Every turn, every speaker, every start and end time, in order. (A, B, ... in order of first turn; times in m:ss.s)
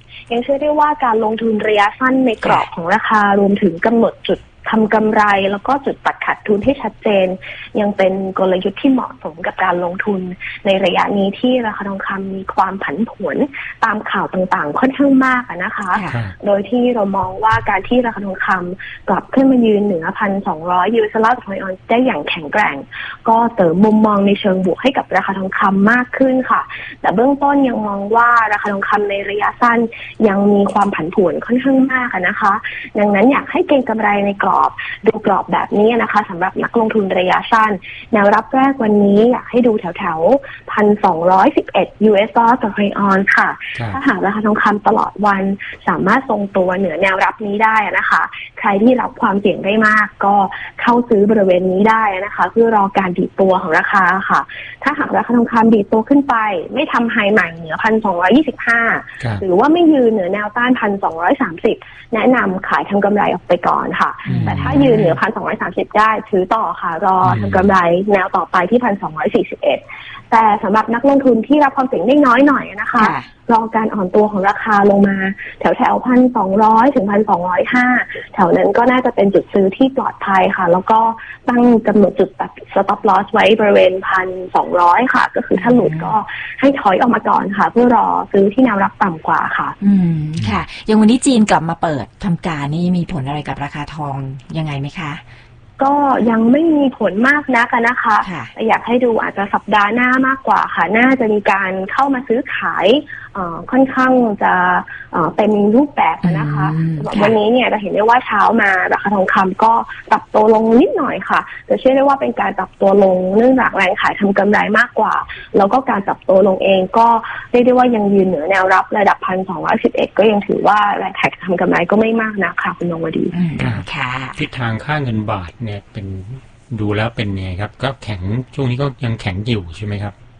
0:00.3-1:29.7 A
0:02.4-0:02.7 B
0:15.9-0:16.2 B
1:04.3-1:04.8 C
1:04.4-1:05.2 B
1:07.2-1:07.7 C
1:13.0-1:13.3 B
1:25.6-1:26.1 B
1:29.8-1:35.2 B
1:35.8-2:03.3 A
1:38.2-1:38.5 B
1:46.2-1:47.4 B
2:03.3-2:04.4 B
2:03.6-2:10.1 C